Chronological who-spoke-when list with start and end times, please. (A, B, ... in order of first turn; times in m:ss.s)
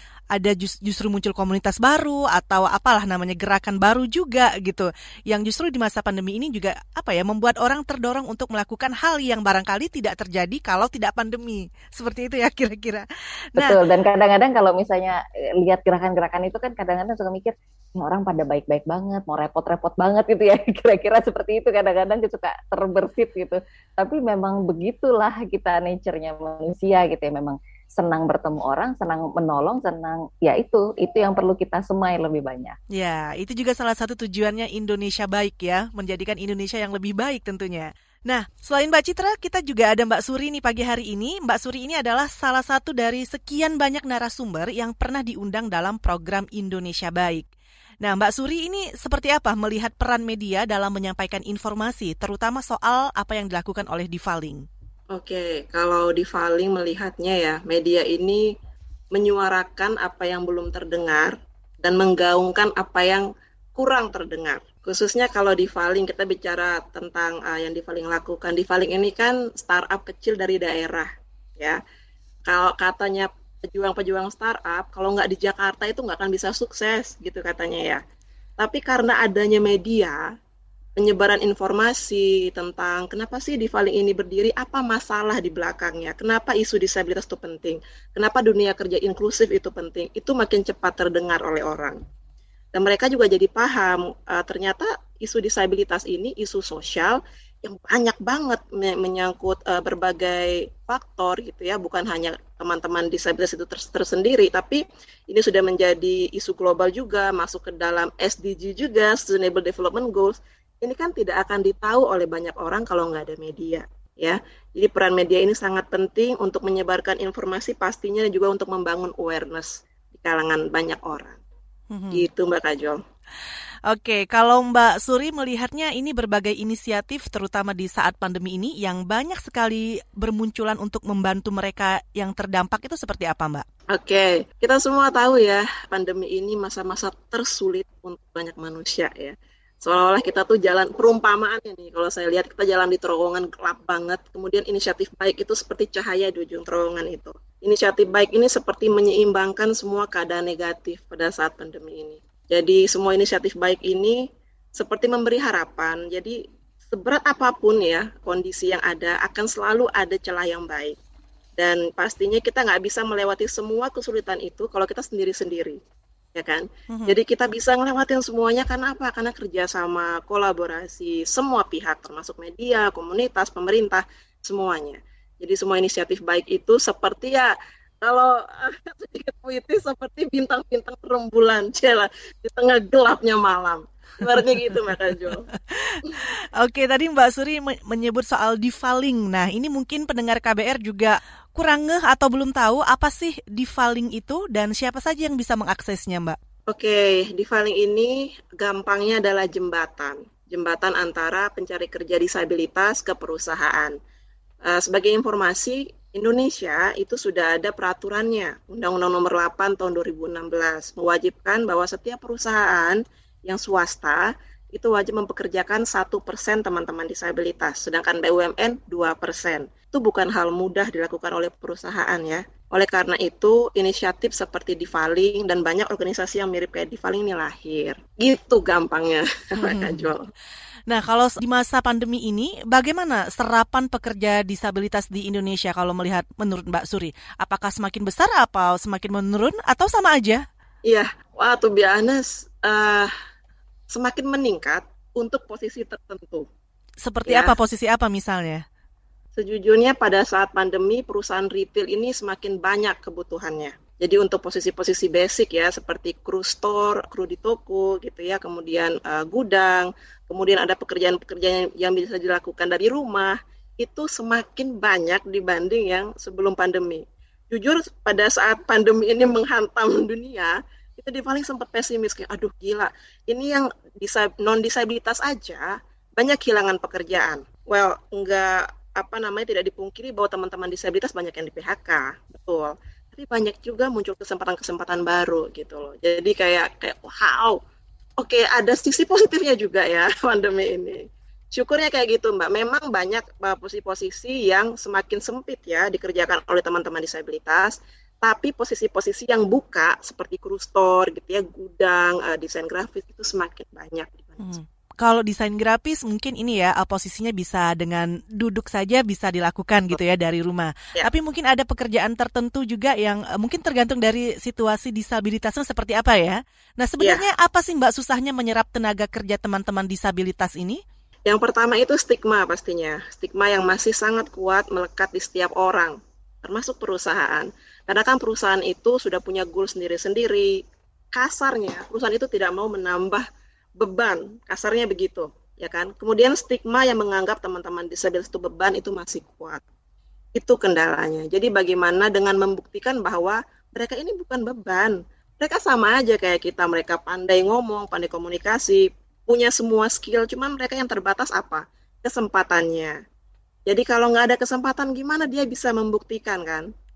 0:00.3-0:13.0 A
0:13.6-0:32.8 B
0:32.9-0:47.5 A
0:48.0-0:54.6 A
0:55.1-0:58.5 C
0:59.1-1:11.8 C
1:12.4-1:18.0 C
1:18.6-1:20.2 C
1:21.0-1:32.0 C
1:32.7-2:01.4 C
2:01.9-2:02.2 A
2:02.1-2:03.0 C
2:03.9-2:13.6 A
2:13.9-2:34.2 C
2:34.8-2:36.4 C
2:36.9-2:41.0 C
2:41.6-2:45.8 C
2:46.3-3:05.5 C
3:05.7-3:16.4 A
3:16.7-3:24.0 C
3:24.6-3:50.3 C
3:49.6-3:50.1 A
3:50.9-4:00.4 A
4:00.8-4:03.1 C
4:03.9-4:06.5 C
4:07.0-4:08.6 A
4:07.2-4:07.5 C
4:09.4-4:47.6 C
4:48.2-5:04.5 C
5:04.4-5:20.8 A
5:21.2-5:33.2 C
5:33.8-5:39.6 C
5:40.4-5:53.0 C
5:53.7-5:56.7 C